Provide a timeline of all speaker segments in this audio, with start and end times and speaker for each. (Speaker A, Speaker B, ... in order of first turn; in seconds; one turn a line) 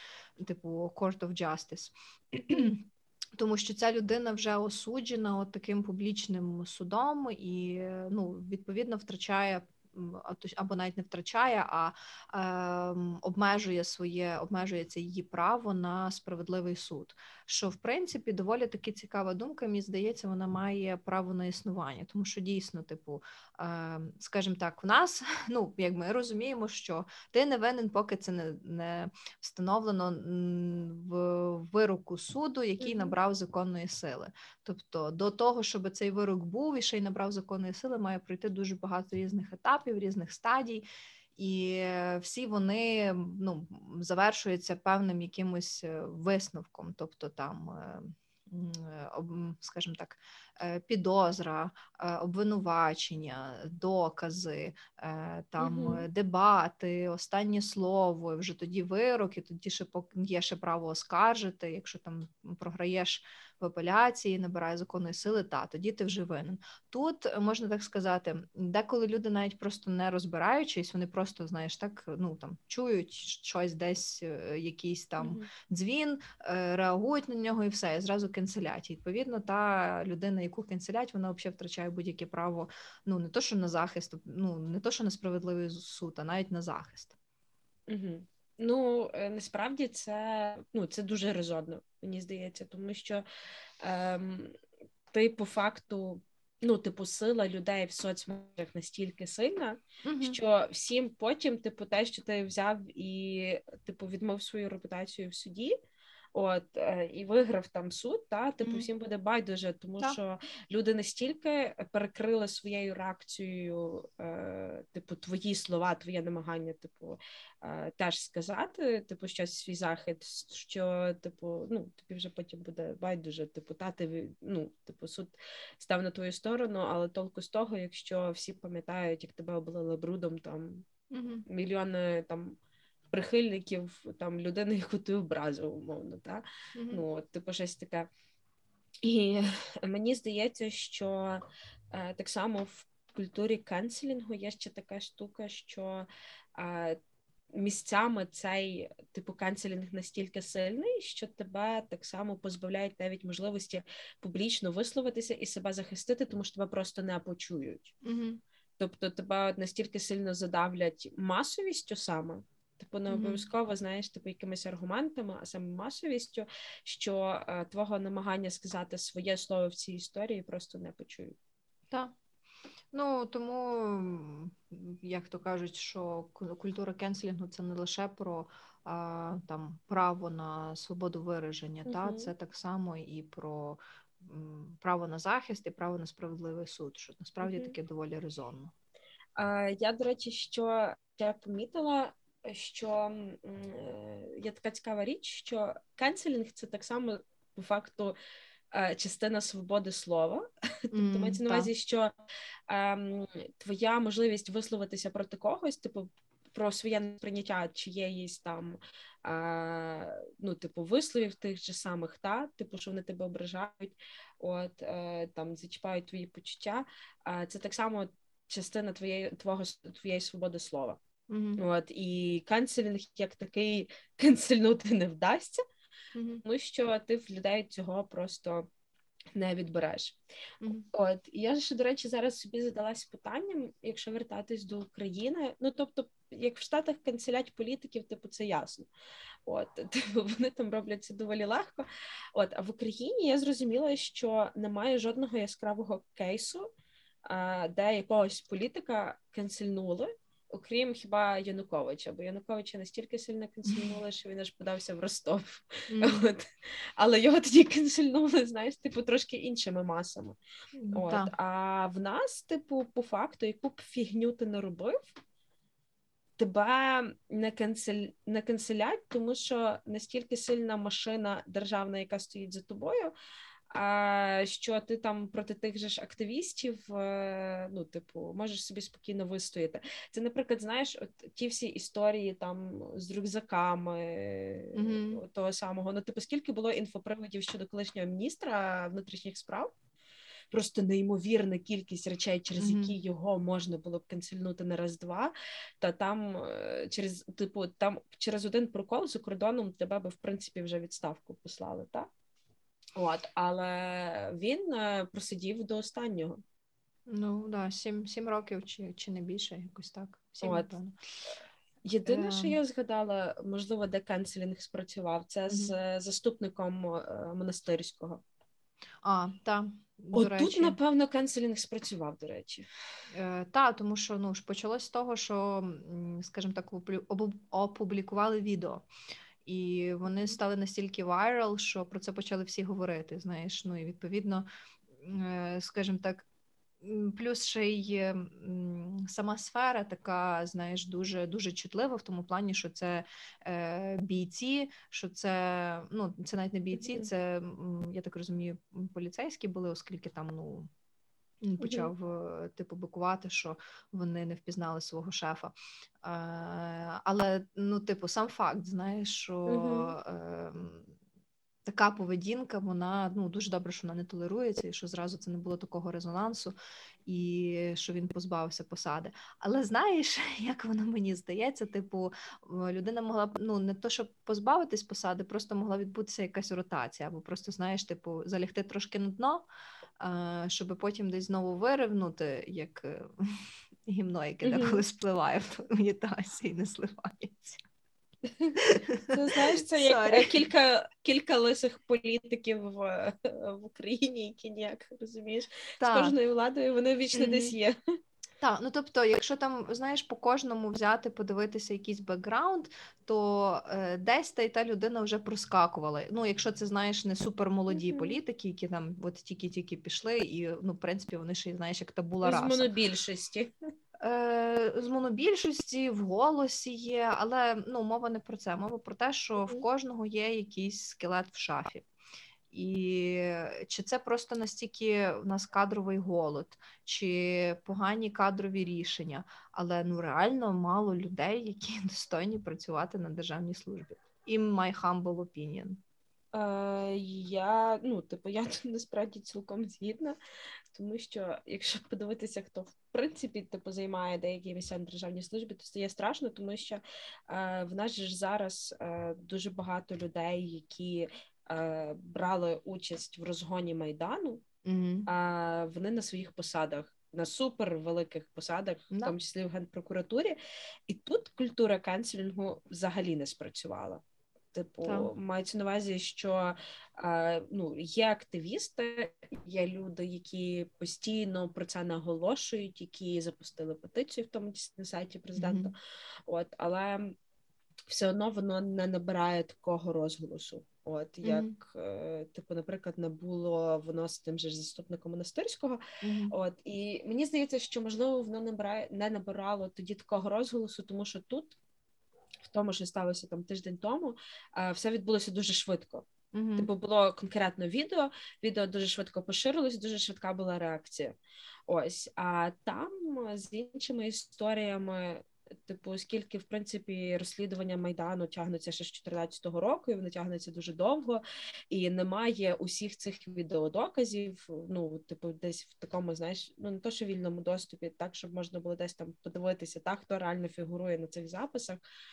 Speaker A: 0.4-87.1
Speaker B: 32.8-33.1
Speaker B: 55.6-56.1
Speaker B: 75.2-75.5
Speaker B: 87.9-93.2
Speaker B: 93.8-94.5
Speaker B: 95.1-105.8
Speaker A: 100.0-100.4
Speaker B: 106.3-130.9
Speaker A: 108.6-108.9
Speaker A: 131.1-131.4
Speaker B: 131.5-132.6
Speaker B: 133.1-138.1
Speaker A: 136.8-137.0
Speaker B: 139.0-147.0
Speaker B: 147.5-157.9
Speaker A: 158.0-158.4
Speaker B: 158.8-171.4
Speaker A: 163.1-163.4
Speaker A: 172.9-188.7
Speaker B: 181.9-182.3
Speaker B: 187.4-187.7
Speaker B: 189.4-198.2
Speaker B: 198.7-202.1
Speaker A: 200.9-201.7
Speaker B: 202.7-221.0
Speaker A: 221.3-221.6
Speaker B: 221.6-225.6
Speaker A: 226.1-226.4
Speaker B: 226.4-228.7
Speaker B: 229.3-230.2
Speaker A: 230.6-230.9
Speaker B: 230.9-238.9
Speaker B: 239.5-246.7
Speaker B: 247.2-260.4
Speaker A: 255.9-256.3
Speaker A: 260.7-261.3
Speaker B: 260.9-265.1
Speaker B: 266.4-273.1
Speaker B: 273.7-289.7
Speaker A: 284.8-285.2
Speaker B: 290.5-302.1
Speaker A: 292.6-292.9
Speaker B: 303.0-306.4
Speaker A: 307.1-311.0
Speaker B: 310.4-310.7
Speaker B: 311.8-318.2
Speaker A: 312.1-312.6
Speaker A: 315.5-315.7
Speaker A: 319.0-320.8
Speaker B: 320.1-322.6
Speaker A: 323.1-328.9
Speaker A: 329.5-334.5
Speaker A: 335.0-336.2
Speaker A: 336.8-350.7
Speaker B: 346.8-347.1
Speaker A: 351.4-360.9
Speaker B: 351.6-351.9
Speaker B: 359.5-359.9
Speaker A: 361.6-366.5
Speaker A: 367.1-379.5
Speaker A: 380.0-387.6
Speaker B: 384.4-384.8
Speaker B: 388.3-397.8
Speaker A: 388.6-390.5
Speaker A: 395.8-396.1
Speaker A: 397.1-397.6
Speaker A: 398.4-412.7
Speaker B: 407.7-408.2
Speaker B: 412.2-413.5
Speaker A: 414.0-421.9
Speaker A: 422.5-435.8
Speaker B: 436.3-440.2
Speaker B: 440.7-454.4
Speaker A: 454.6-455.1
Speaker B: 455.1-460.4
Speaker B: 460.9-464.0
Speaker B: 464.5-475.8
Speaker A: 464.9-465.1
Speaker A: 475.4-475.7
Speaker B: 476.3-477.1
Speaker B: 477.9-491.6
Speaker A: 481.2-481.6
Speaker A: 486.0-486.4
Speaker B: 492.4-501.1
Speaker A: 496.3-496.7
Speaker B: 501.7-521.8